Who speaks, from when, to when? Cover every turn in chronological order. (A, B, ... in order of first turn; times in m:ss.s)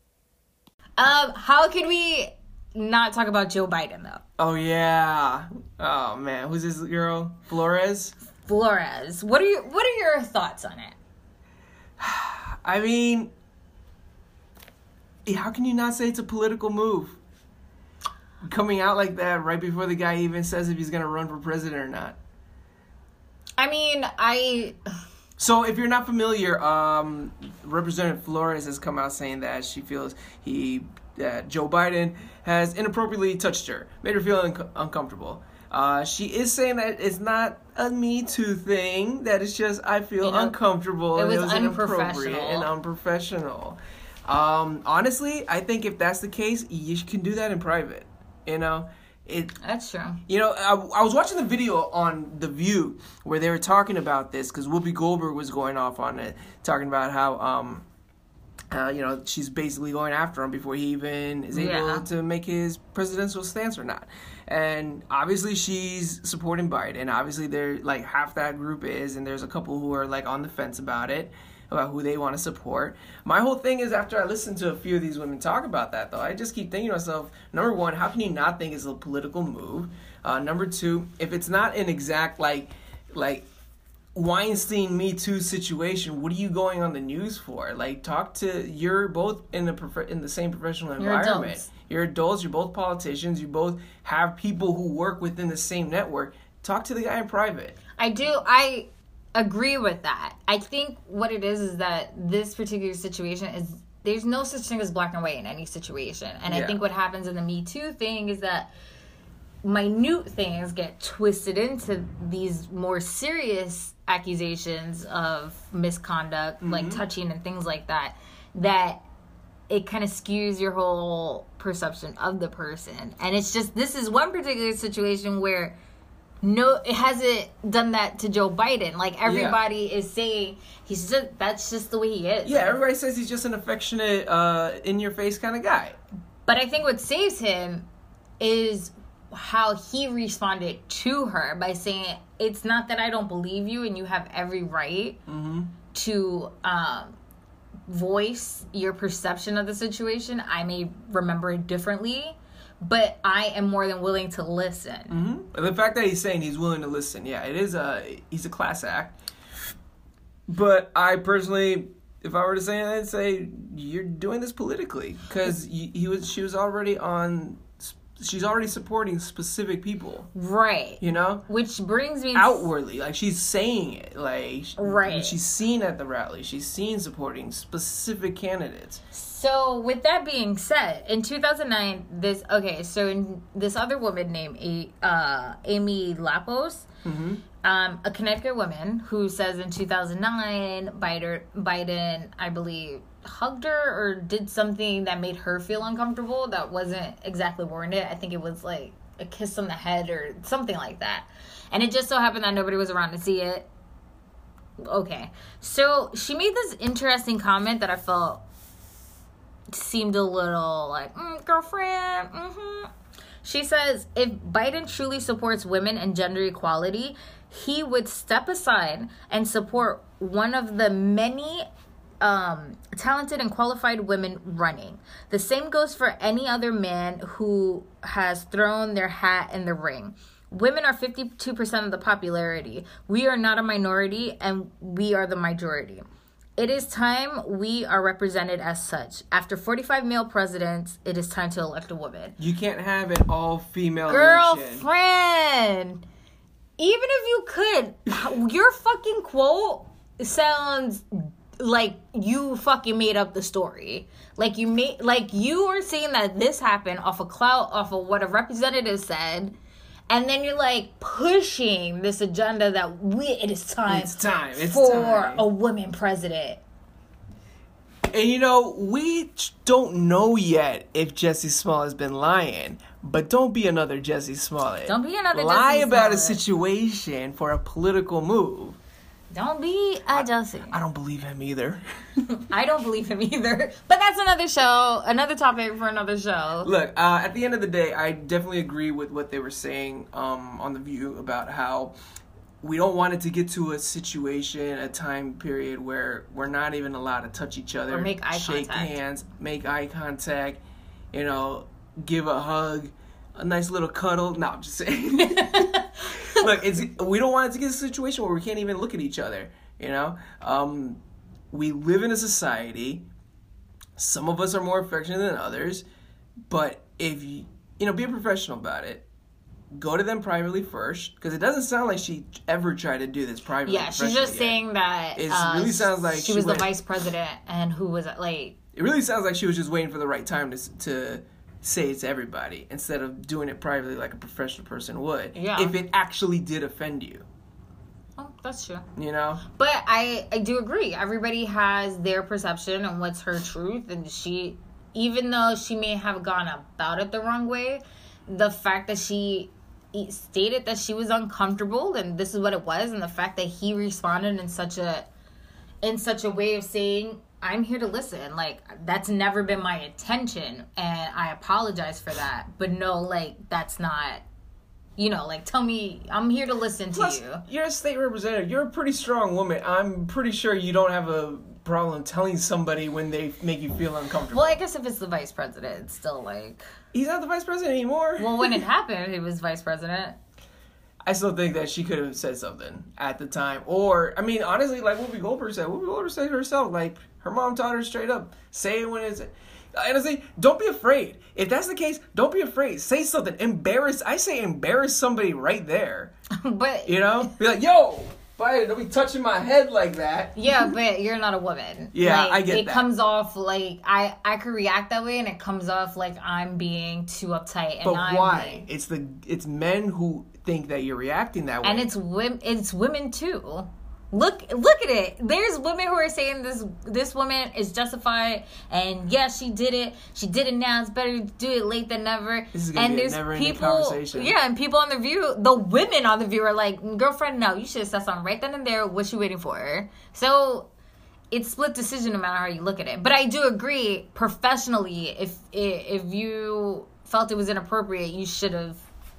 0:01.0-0:04.2 A
0:04.4-0:08.1 B
0:08.4-0:11.0 A
0:12.0-0:13.3 B
0:15.2-0:17.2 B
0:18.4-0:22.2 B
0:23.6-0:24.8 A
0:25.4-0:49.6 B
0:40.2-0:40.6 A
0:41.1-0:42.7 A
0:49.6-0:50.2 A
0:50.3-0:57.8 B
0:58.7-1:23.4 B
1:01.5-1:02.0 A
1:24.1-1:37.8 B
1:31.0-1:31.7 A
1:38.0-1:48.7 A
1:46.5-1:46.8 B
1:49.6-1:59.0 A
1:56.6-1:57.0 B
1:59.7-2:05.8 A
2:06.4-2:12.8 A
2:09.2-2:09.6 B
2:12.4-2:16.0 B
2:16.5-2:17.8 A
2:18.4-2:25.2 A
2:25.3-2:25.7 B
2:25.9-2:27.1 A
2:27.9-2:35.2 A
2:35.1-2:39.2 B
2:40.5-2:50.3 B
2:50.3-2:52.7 A
2:51.0-2:51.4 B
2:52.3-2:59.0 B
2:54.8-2:55.4 A
2:59.1-3:06.9 A
3:07.0-3:07.4 B
3:07.6-3:23.7 A
3:24.8-3:28.4 A
3:29.7-3:32.9 A
3:33.4-3:41.6 A
3:42.2-3:56.0 A
3:56.6-4:02.4 A
4:02.4-4:04.8 B
4:04.1-4:06.0 A
4:06.8-4:19.5 A
4:20.1-4:26.6 A
4:23.9-4:25.4 B
4:28.1-4:38.8 B
4:34.9-4:36.4 A
4:39.3-4:40.8 A
4:40.1-4:42.2 B
4:42.4-4:46.7 A
4:46.6-4:52.0 B
4:52.6-5:00.6 B
4:57.9-4:58.9 A
5:01.1-5:11.0 B
5:05.3-5:06.4 A
5:11.5-5:13.1 B
5:14.0-5:15.8 B
5:16.5-5:19.0 B
5:19.7-5:24.6 B
5:23.6-5:28.6 A
5:25.1-5:26.7 B
5:28.7-5:37.2 B
5:35.3-5:35.7 A
5:38.2-5:38.8 A
5:39.0-5:39.4 B
5:39.5-5:55.1 A
5:55.8-6:04.2 A
6:05.0-6:07.4 A
6:06.9-6:14.6 B
6:14.3-6:16.6 A
6:16.9-6:18.6 B
6:18.2-6:20.2 A
6:21.0-6:36.1 B
6:36.4-6:37.3 A
6:36.8-6:40.7 B
6:40.4-6:48.6 A
6:41.9-6:42.8 B
6:47.8-6:51.9 B
6:51.6-7:10.7 A
7:02.5-7:04.3 B
7:11.3-7:18.8 A